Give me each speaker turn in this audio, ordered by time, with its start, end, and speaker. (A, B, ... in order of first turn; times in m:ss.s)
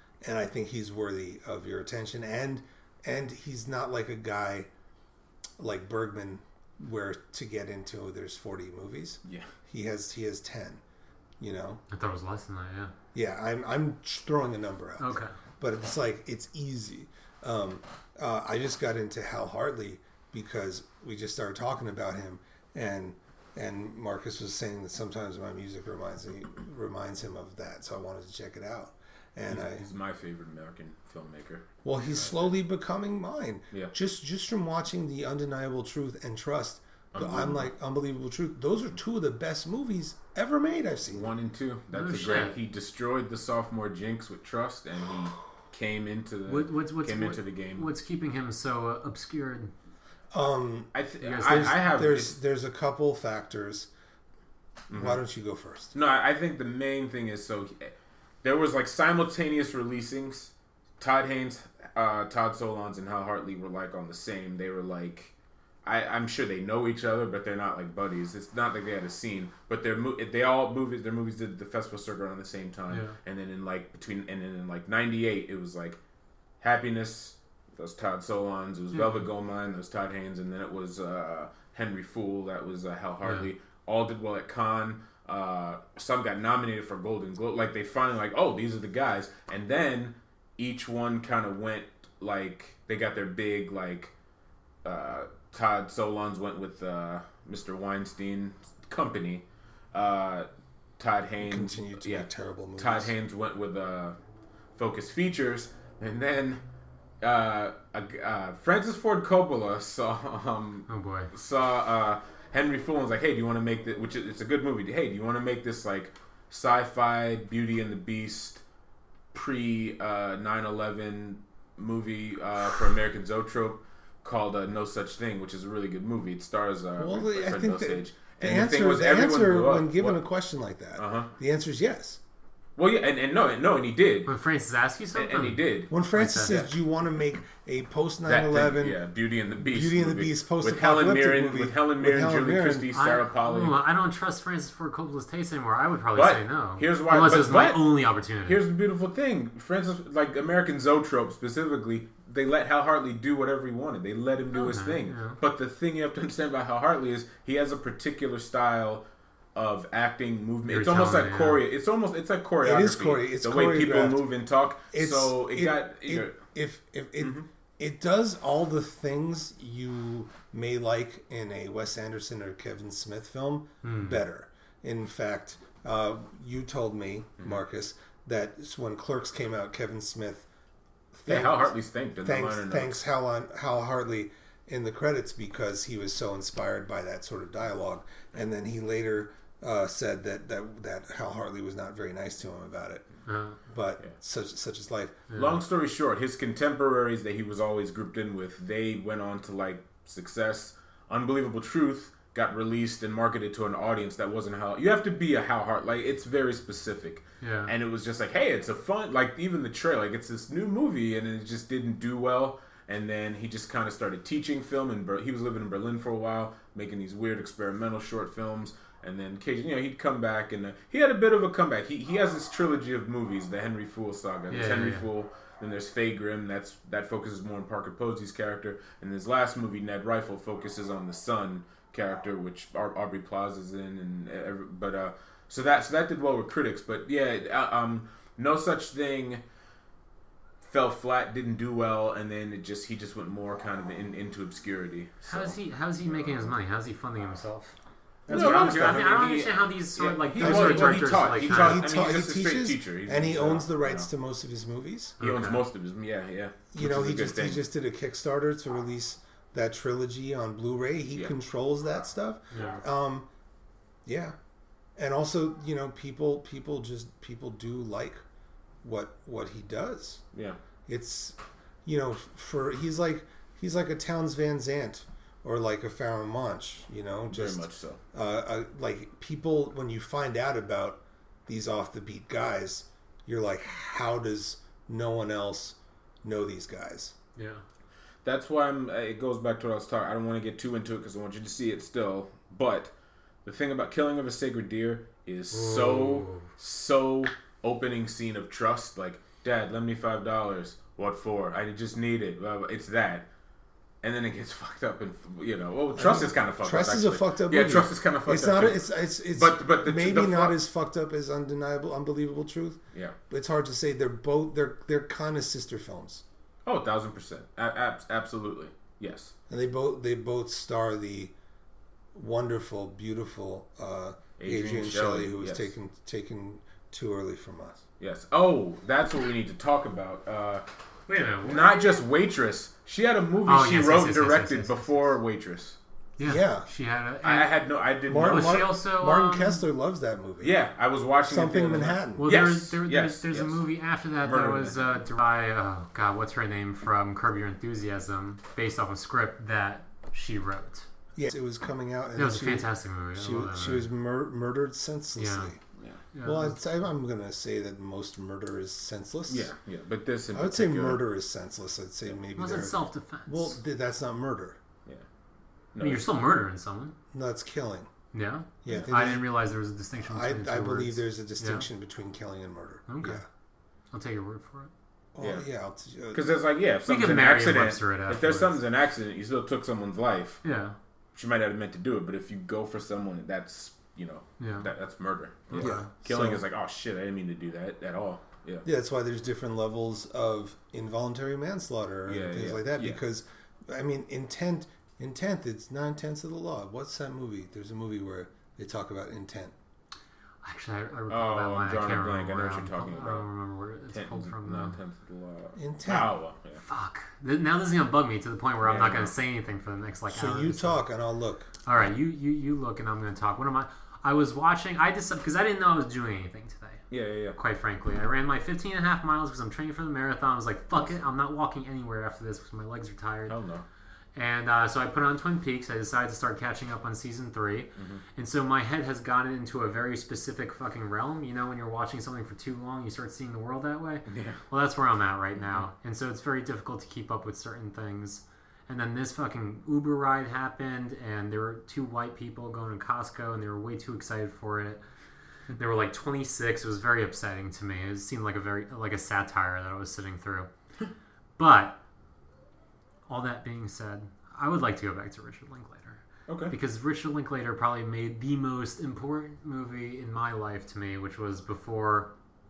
0:00.2-0:04.7 A
0:05.6-0:10.8 A
0:11.4-0:11.8 A
0:11.9-0:12.9 B
0:13.1-0:29.9 A
0:15.0-0:15.3 B
0:29.5-0:31.7 C
0:31.8-0:41.2 A
0:37.1-0:37.7 C
0:41.1-0:47.9 C
0:41.9-0:42.6 B
0:46.5-0:49.7 B
0:50.3-0:50.9 A
0:50.9-0:52.4 C
0:51.2-0:51.8 B
0:51.4-0:53.9 A
0:54.9-0:55.2 C
0:54.9-0:55.9 A
0:55.9-1:05.3 C
1:05.8-1:16.0 C
1:12.9-1:13.2 B
1:16.6-1:34.1 C
1:18.9-1:19.2 B
1:34.8-1:40.5 C
1:41.0-1:44.2 C
1:41.4-1:43.1 A
1:44.8-1:46.6 C
1:47.2-1:58.6 C
1:50.9-1:51.3 B
1:59.3-2:10.2 C
2:07.0-2:12.2 A
2:11.0-2:11.3 C
2:12.8-2:14.3 C
2:14.3-2:16.6 B
2:15.1-2:15.9 C
2:15.9-2:19.0 A
2:16.4-2:16.7 C
2:18.3-2:23.8 C
2:19.6-2:22.9 A
2:22.9-2:28.6 B
2:26.1-2:39.0 C
2:34.5-2:35.4 B
2:39.5-2:46.4 C
2:40.7-2:41.6 B
2:42.6-2:44.2 A
2:44.9-3:00.5 A
2:47.2-2:47.5 C
2:53.8-2:54.2 B
3:01.1-3:13.0 A
3:01.3-3:03.0 C
3:13.2-3:13.6 B
3:13.6-3:15.2 A
3:15.3-3:15.6 B
3:15.3-3:59.4 C
3:27.4-3:27.7 B
3:44.5-3:45.1 B
4:00.6-4:05.6 C
4:05.3-4:07.7 B
4:08.3-4:11.9 B
4:08.3-4:14.1 C
4:08.3-4:09.0 A
4:10.4-4:15.2 A
4:15.2-4:15.6 B
4:15.2-4:17.6 C
4:16.7-4:23.3 A
4:22.5-4:22.8 B
4:24.0-4:24.3 A
4:25.0-4:28.2 A
4:28.8-4:30.2 A
4:30.3-4:30.6 C
4:30.9-4:47.1 A
4:37.3-4:38.0 C
4:47.4-4:47.6 B
4:48.2-4:52.9 C
4:53.4-5:03.2 C
4:55.5-4:56.5 B
5:04.0-5:10.6 C
5:05.9-5:12.8 A
5:13.3-5:16.2 A
5:16.6-5:19.3 C
5:19.5-5:21.3 A
5:22.1-5:27.8 A
5:24.4-5:25.7 C
5:28.0-5:30.6 C
5:31.1-5:32.0 B
5:31.4-5:35.8 C
5:33.4-5:34.9 B
5:36.2-5:37.5 B
5:36.2-5:36.7 A
5:37.2-5:38.7 C
5:38.1-5:40.6 A
5:38.1-5:39.6 B
5:40.4-5:43.6 C
5:41.3-5:42.3 A
5:42.2-5:50.8 B
5:44.2-5:45.0 C
5:51.2-5:55.6 A
5:52.2-5:53.9 B
5:55.2-5:55.5 B
5:55.8-5:56.0 C
5:56.1-5:56.6 B
5:56.2-5:59.5 A
5:59.3-6:01.0 C
6:00.3-6:04.6 A
6:02.4-6:03.6 B
6:05.7-6:06.0 C
6:05.8-6:06.9 B
6:07.1-6:07.9 A
6:08.1-6:11.6 B
6:08.6-6:09.2 A
6:10.0-6:13.2 A
6:12.9-6:13.2 B
6:13.9-6:14.7 B
6:15.1-6:16.2 A
6:15.2-6:15.4 C
6:16.1-6:20.4 C
6:16.8-6:18.6 B
6:20.4-6:20.8 B
6:21.1-6:28.6 C
6:24.4-6:24.7 B
6:25.5-6:25.9 B
6:25.6-6:26.4 A
6:28.6-6:39.5 A
6:32.0-6:33.0 C
6:40.4-6:44.8 B
6:41.1-6:43.3 C
6:43.9-6:46.6 C
6:45.6-6:46.1 A
6:46.6-6:50.8 B
6:48.6-6:49.1 C
6:50.1-6:51.5 A
6:51.6-6:56.8 B
6:56.9-6:57.4 C
6:57.4-7:03.4 B
7:00.8-7:01.0 C
7:03.3-7:03.6 C
7:04.1-7:24.8 B
7:07.8-7:08.0 C
7:14.1-7:14.4 C
7:15.4-7:15.6 C
7:25.6-7:30.5 B
7:31.4-7:31.8 B
7:33.1-7:42.1 B
7:36.3-7:36.5 C